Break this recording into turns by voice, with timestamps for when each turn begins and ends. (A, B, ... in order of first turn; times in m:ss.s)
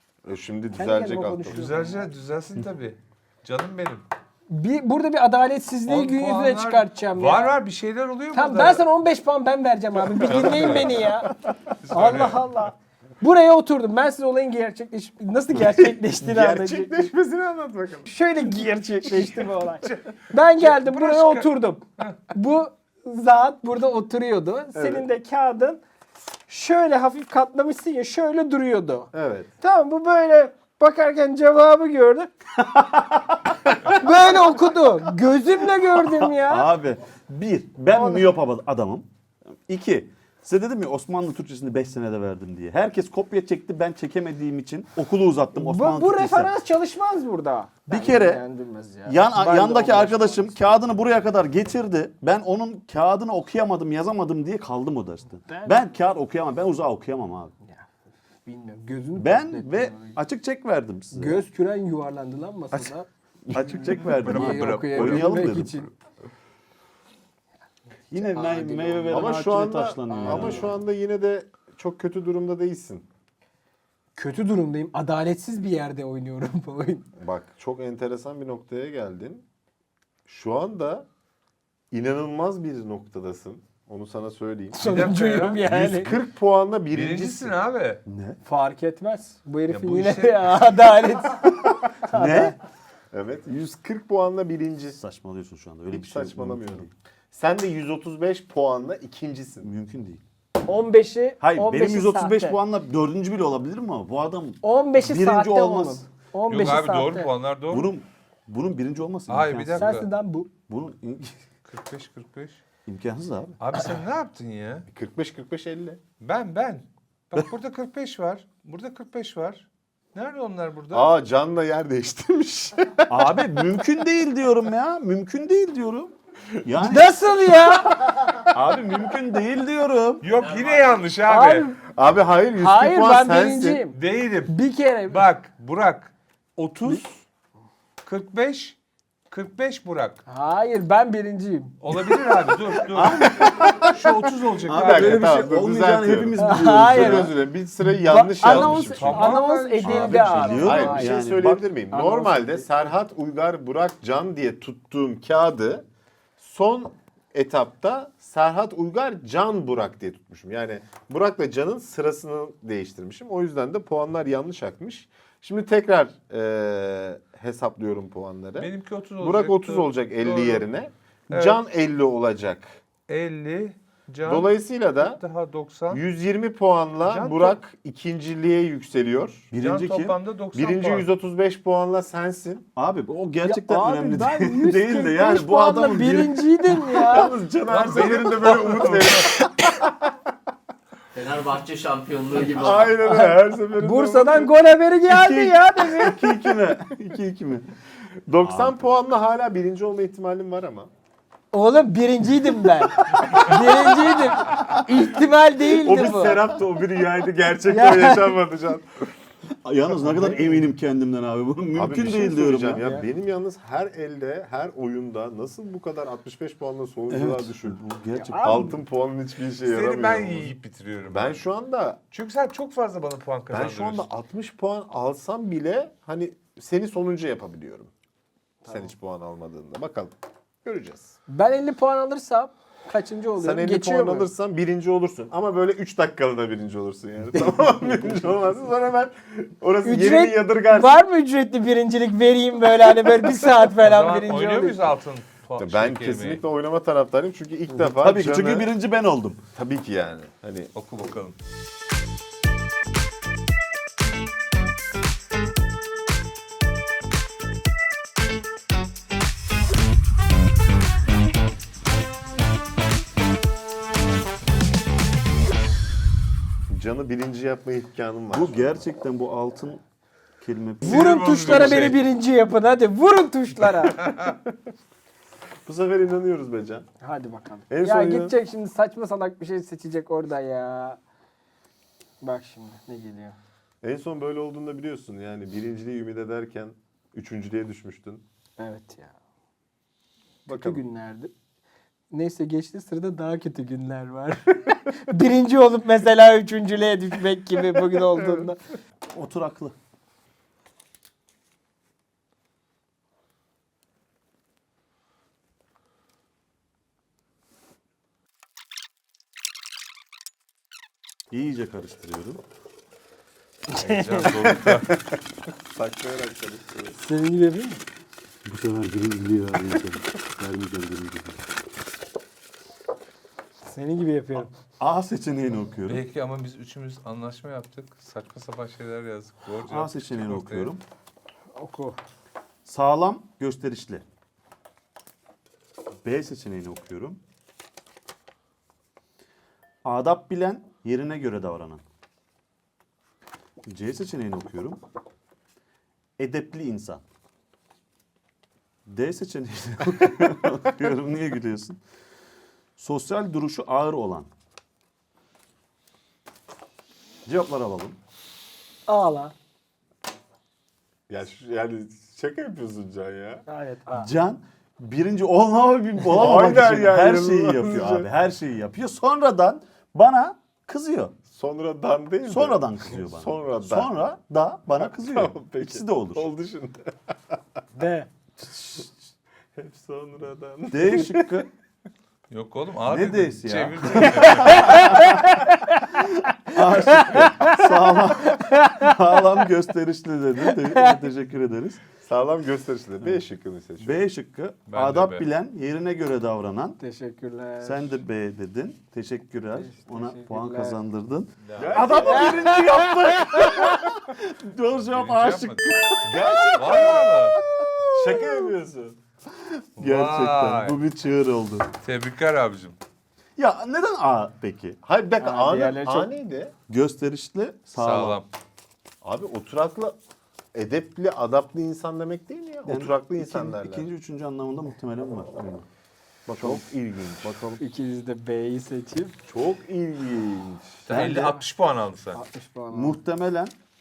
0:00.2-0:01.7 A
0:00.8-0:02.1 B
0:01.5-0:04.0 C
0:04.5-0:07.6 B
0:05.9-0:08.9 C
0:08.3-0:11.3 B
0:10.2-0:11.0 C
0:10.3-0:10.7 A
0:11.8-0:12.4 C
0:11.9-0:17.1 B
0:16.2-0:18.2 A
0:18.1-0:25.8 B
0:19.8-0:22.2 C
0:24.8-0:25.0 A
0:26.5-0:32.3 B
0:29.1-0:29.5 A
0:32.8-0:33.1 D
0:33.8-0:36.7 B
0:36.1-0:39.1 D
0:37.9-0:38.2 B
0:39.7-0:46.5 D
0:45.6-0:50.8 B
0:47.9-0:48.4 D
0:49.0-0:57.5 D
0:55.5-0:55.8 B
0:58.4-1:00.2 B
0:59.2-1:01.4 D
1:01.1-1:05.9 B
1:03.5-1:05.9 D
1:04.1-1:05.6 C
1:08.1-1:10.8 D
1:08.2-1:09.6 B
1:09.1-1:13.1 A
1:10.1-1:10.7 B
1:14.2-1:17.1 B
1:17.2-1:19.4 A
1:20.3-1:21.1 A
1:21.9-1:24.9 A
1:24.7-1:26.1 B
1:24.8-1:25.6 C
1:25.6-1:26.2 D
1:25.7-1:27.5 A
1:26.9-1:28.0 C
1:28.1-1:28.4 D
1:28.4-1:32.6 B
1:29.7-1:30.6 C
1:32.1-1:32.6 D
1:33.1-1:35.0 A
1:34.9-1:36.9 D
1:35.9-1:39.7 A
1:39.6-1:40.2 D
1:40.7-1:42.6 B
1:41.4-1:46.1 D
1:44.6-1:47.3 B
1:46.5-1:47.9 C
1:47.7-1:50.1 D
1:49.3-1:50.1 C
1:49.8-1:50.5 B
1:50.7-1:51.4 D
1:51.6-1:52.6 C
1:52.9-1:53.6 D
1:53.6-1:54.9 C
1:54.9-1:56.0 A
1:56.2-2:01.1 C
2:00.9-2:03.4 A
2:03.1-2:07.2 D
2:06.8-2:08.0 B
2:08.5-2:10.2 D
2:10.2-2:11.7 C
2:10.3-2:11.0 E
2:11.3-2:11.8 B
2:11.9-2:13.8 A
2:12.6-2:14.0 B
2:14.0-2:14.6 C
2:14.5-2:15.2 B
2:15.1-2:17.2 C
2:18.0-2:18.8 C
2:19.3-2:20.2 C
2:20.3-2:21.7 B
2:21.8-2:25.4 C
2:22.9-2:23.8 D
2:23.4-2:23.9 A
2:24.7-2:35.8 A
2:24.7-2:27.4 D
2:26.4-2:27.4 B
2:27.9-2:32.7 B
2:28.4-2:30.9 C
2:29.8-2:31.7 D
2:36.4-2:52.7 A
2:48.6-2:50.6 C
2:51.3-2:51.6 C
2:53.1-2:56.0 C
2:54.2-2:55.2 A
2:55.9-2:59.5 A
2:57.0-2:57.6 C
2:59.5-3:00.2 D
2:59.5-3:01.1 C
3:00.5-3:02.7 A
3:02.8-3:06.5 D
3:03.4-3:07.4 B
3:07.0-3:10.1 A
3:07.7-3:09.4 C
3:11.2-3:13.0 E
3:12.5-3:14.5 A
3:13.0-3:16.2 B
3:15.1-3:17.7 D
3:18.3-3:20.9 A
3:18.4-3:18.8 D
3:21.5-3:26.5 B
3:23.2-3:23.5 A
3:25.8-3:29.0 A
3:27.7-3:28.4 B
3:29.6-3:32.8 D
3:30.0-3:30.5 A
3:31.7-3:37.8 A
3:32.8-3:33.1 B
3:37.1-3:38.8 D
3:38.2-3:38.8 B
3:38.4-3:40.6 A
3:39.6-3:41.4 C
3:41.1-3:42.0 A
3:42.1-3:44.1 C
3:43.5-3:47.9 A
3:48.6-3:48.9 B
3:48.7-3:51.1 A
3:51.3-3:54.3 B
3:53.4-4:01.0 A
3:59.8-4:04.8 B
4:03.8-4:06.4 C
4:05.6-4:08.7 A
4:07.8-4:09.4 D
4:09.6-4:10.7 A
4:10.7-4:11.4 C
4:26.7-4:28.8 A
4:28.3-4:29.8 D
4:30.4-4:31.9 D
4:30.8-4:32.0 C
4:30.8-4:34.0 B
4:34.0-4:34.3 C
4:35.6-4:36.9 A
4:37.0-4:41.0 B
4:37.7-4:38.3 A
4:42.2-4:43.4 B
4:43.8-4:48.2 A
4:48.6-4:49.2 B
4:50.5-4:51.3 B
4:50.5-4:50.8 A
4:52.1-4:58.6 B
4:59.1-4:59.8 D
5:11.3-5:12.4 D
5:13.7-5:14.4 B
5:13.8-5:15.0 C
5:14.4-5:15.0 A
5:15.7-5:17.0 A
5:17.0-5:17.8 B
5:18.4-5:21.4 D
5:23.6-5:24.5 B
5:24.8-5:26.0 D
5:25.9-5:30.7 C
5:29.7-5:30.8 D
5:31.6-5:32.0 B
5:32.6-5:34.0 D
5:36.0-5:37.2 D
5:39.8-5:41.8 D
5:43.7-5:44.8 D
5:46.2-5:47.0 D
5:48.9-5:51.8 D
5:52.8-5:54.3 D
5:57.3-5:58.0 D
5:58.9-5:59.3 B
6:01.1-6:03.4 A
6:03.5-6:04.1 B
6:04.0-6:11.2 D
6:06.1-6:08.1 A
6:11.3-6:14.0 A
6:12.2-6:16.3 D
6:14.8-6:16.9 A
6:17.8-6:18.1 B
6:18.4-6:18.9 D
6:19.6-6:21.4 A
6:20.7-6:21.5 D
6:22.3-6:24.9 C
6:22.9-6:25.2 D
6:24.3-6:28.9 B
6:26.0-6:31.8 D
6:30.7-6:31.0 B
6:32.0-6:34.0 A
6:33.8-6:36.8 D
6:34.7-6:35.3 C
6:36.8-6:38.0 B
6:37.6-6:48.5 D
6:39.5-6:40.8 B
6:41.4-6:42.3 C
6:41.6-6:42.6 A
6:42.0-6:43.7 B
6:44.9-6:45.7 C
6:46.0-6:47.4 A
6:46.6-6:47.4 C
6:47.9-6:49.0 A
6:49.3-6:51.7 D
6:49.8-6:50.8 C
6:51.8-6:52.8 C
6:53.4-6:54.8 D
6:54.8-6:56.5 A
6:55.2-6:56.1 B
6:56.7-6:58.2 D
6:57.8-6:58.3 C
6:59.0-7:00.0 A
7:00.5-7:03.9 A
7:02.7-7:05.7 D
7:06.3-7:06.6 D
7:06.4-7:07.4 A
7:07.2-7:07.6 D
7:07.6-7:09.2 B
7:09.3-7:10.8 A
7:10.9-7:12.2 C
7:10.9-7:11.4 D
7:12.1-7:13.0 B
7:12.7-7:13.5 D